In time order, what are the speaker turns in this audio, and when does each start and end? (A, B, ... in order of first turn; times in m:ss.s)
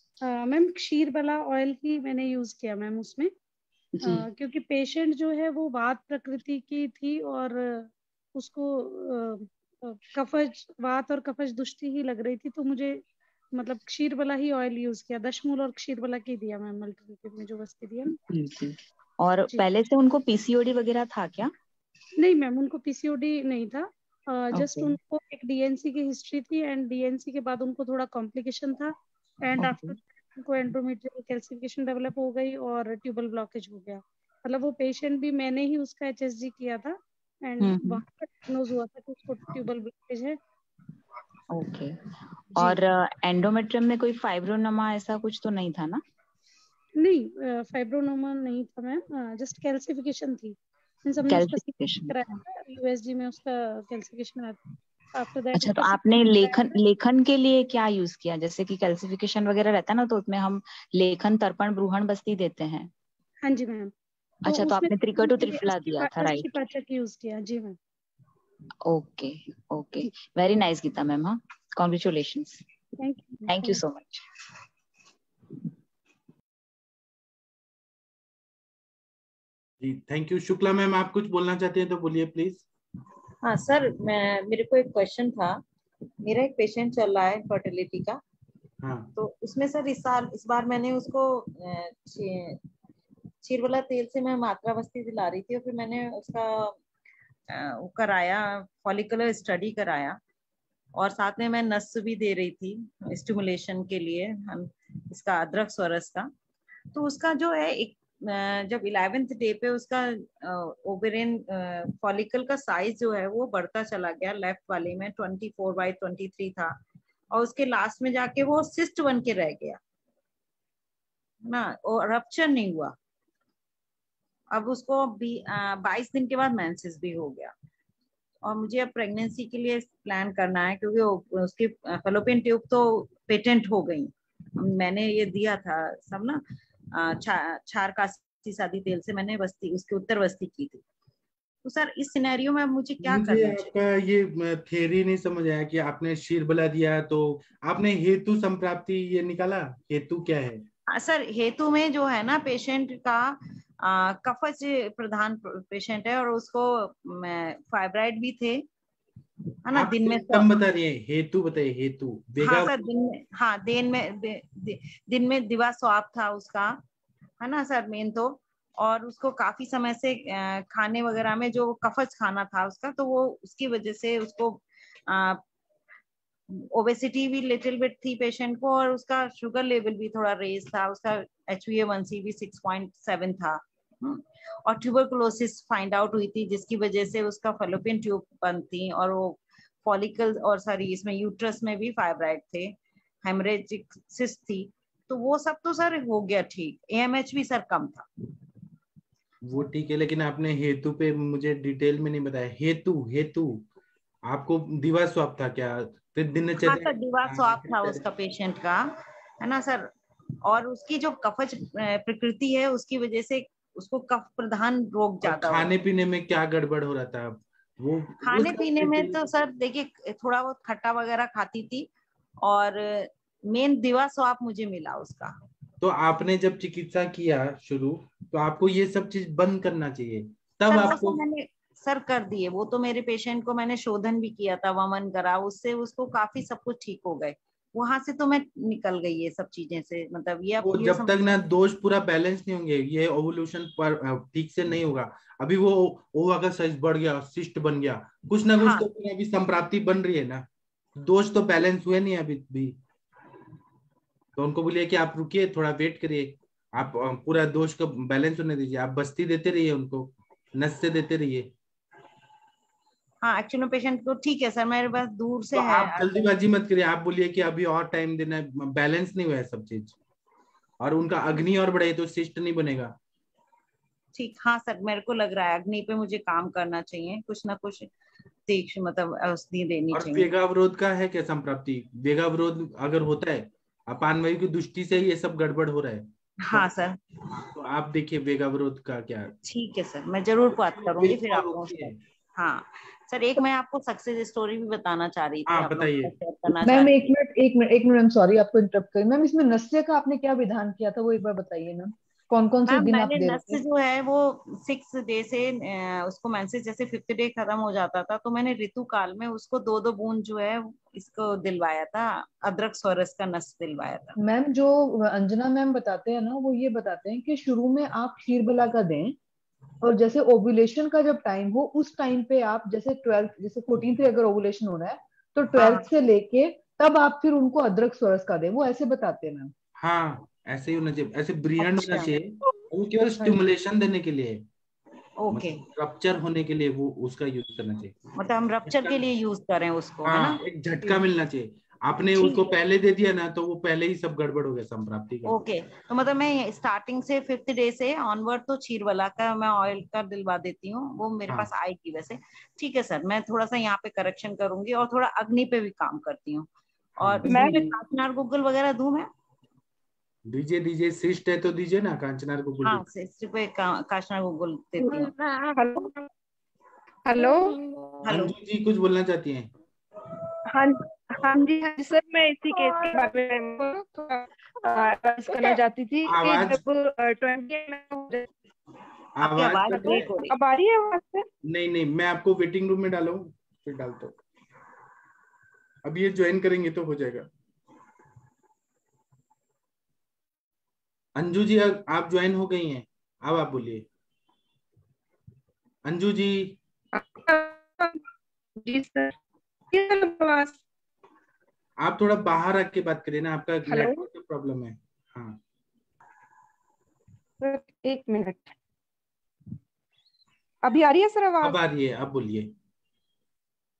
0:00.2-0:03.3 A
0:04.0-0:13.0 A
0:13.6-0:18.2 A
0:18.3-0:21.5 B
0:22.2-0:40.4 A
0:37.6-0:38.0 B
0:41.5-0:42.0 B
0:42.6-0:46.0 B
0:47.0-0:54.6 A
0:51.3-0:52.3 B
0:55.1-0:56.8 A
0:55.5-1:02.9 B
1:03.4-1:03.9 A
1:04.4-1:06.5 B
1:04.5-1:07.8 A
1:08.8-1:12.6 B
1:13.0-1:13.8 A
1:13.5-1:14.2 B
1:19.8-1:22.6 C
1:23.4-1:25.6 D
1:26.2-1:28.2 D
1:28.8-1:29.1 C
1:29.2-1:32.6 D
1:33.4-1:36.7 D
1:37.6-1:40.2 D
1:41.0-1:46.3 D
1:46.9-1:56.7 D
1:57.3-1:59.8 D
2:01.5-2:02.9 D
2:04.5-2:07.5 D
2:08.4-2:16.4 D
2:17.0-2:20.8 D
2:21.6-2:23.7 D
2:23.0-2:30.6 C
2:31.0-2:38.6 D
2:39.6-2:40.5 D
2:39.7-2:42.7 C
2:42.4-2:46.8 D
2:47.4-2:55.4 D
2:56.7-3:18.1 D
3:19.5-3:23.7 C
3:24.3-3:28.0 C
3:26.6-3:28.9 D
3:29.4-3:29.9 D
3:30.5-3:35.7 D
3:35.2-3:39.2 C
3:38.2-3:41.9 D
3:42.4-3:45.3 D
3:45.8-3:51.2 C
3:50.7-4:01.2 D
4:00.6-4:10.4 C
4:08.6-4:08.9 D
4:11.0-4:12.8 C
4:14.4-4:21.5 C
4:23.2-4:26.2 D
4:25.5-4:30.0 C
4:30.8-4:33.0 C
4:34.2-4:37.9 D
4:38.5-4:40.3 D
4:39.9-4:46.7 C
4:46.4-4:47.0 D
4:47.3-4:49.3 C
4:49.4-4:57.0 D
4:50.5-4:52.0 C
4:55.5-4:56.1 C
4:56.7-5:03.5 E
5:02.7-5:14.2 D
5:14.3-5:14.6 E
5:15.2-5:19.1 E
5:19.9-5:29.5 E
5:29.8-5:34.4 C
5:35.2-5:35.6 B
5:35.3-5:38.0 C
5:38.2-5:40.4 D
5:38.7-5:39.0 C
5:40.1-5:45.4 C
5:42.2-5:42.5 D
5:45.2-5:56.5 D
5:57.0-5:57.3 C
5:57.0-5:59.1 D
5:57.3-5:57.7 F
6:00.3-6:02.9 C
6:02.6-6:05.1 D
6:04.8-6:06.1 F
6:07.0-6:08.1 F
6:08.1-6:08.3 D
6:08.1-6:09.5 C
6:10.5-6:18.3 F
6:16.1-6:16.6 C
6:19.2-6:20.1 C
6:19.2-6:20.2 D
6:19.8-6:20.3 B
6:19.8-6:21.3 F
6:21.4-6:24.2 C
6:25.8-6:27.3 C
6:31.2-6:33.9 C
6:35.8-6:36.6 C
6:36.9-6:38.0 F
6:38.6-6:39.2 F
6:39.7-6:40.6 F
6:41.8-6:45.4 C
6:43.7-6:44.0 F
6:47.4-6:48.5 F
6:50.6-6:51.6 F
6:51.4-6:52.5 C